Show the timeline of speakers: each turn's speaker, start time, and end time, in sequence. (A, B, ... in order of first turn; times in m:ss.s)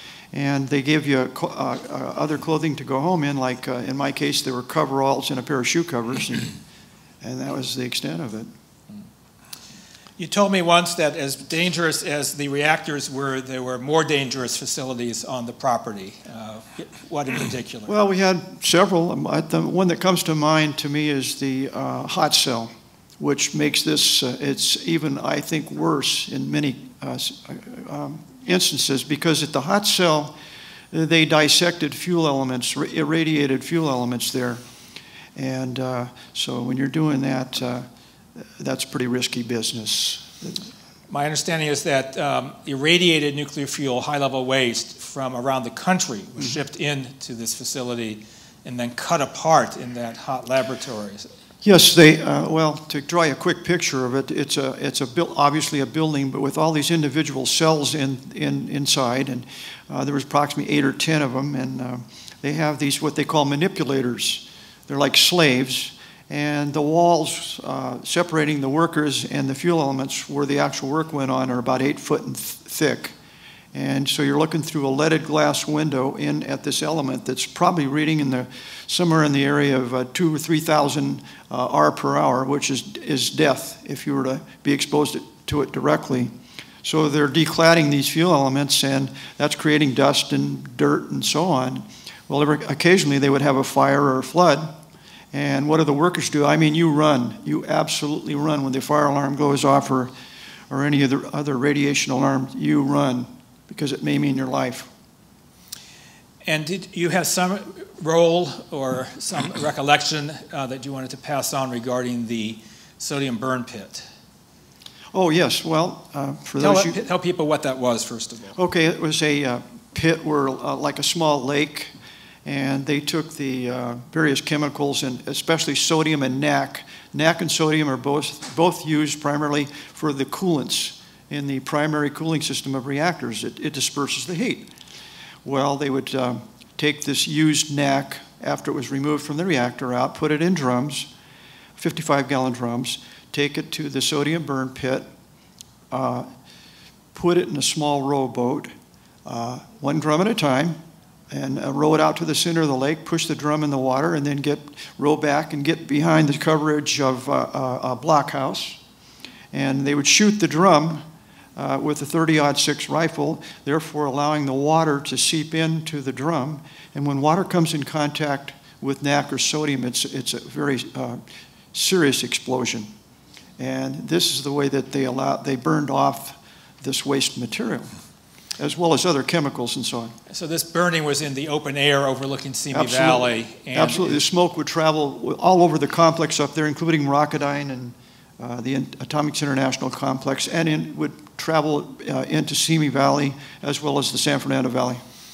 0:00.3-0:06.5 A
0:07.2-0:08.5 A
0:10.2-0:17.9 B
0:17.9-0:30.3 A
0:30.9-0:34.6 A
0:35.4-0:37.9 A
0:38.6-0:40.6 A
0:41.1-0:51.3 B
0:51.6-1:13.2 A
1:13.7-1:34.7 A
1:35.3-1:40.1 A
1:40.7-1:44.9 A
1:46.4-1:54.0 B
1:55.1-1:57.0 A
1:56.6-1:58.6 B
1:58.5-2:01.9 A
2:02.4-2:14.7 A
2:15.4-2:21.1 A
2:21.8-2:25.1 A
2:25.9-2:26.3 A
2:27.1-2:28.7 A
2:29.2-2:30.8 A
2:31.3-2:38.8 A
2:39.5-2:41.0 A
2:41.6-2:51.2 A
2:51.7-2:52.9 A
2:53.6-2:57.9 A
2:58.6-3:00.1 A
3:00.3-3:04.2 B
3:02.7-3:15.0 A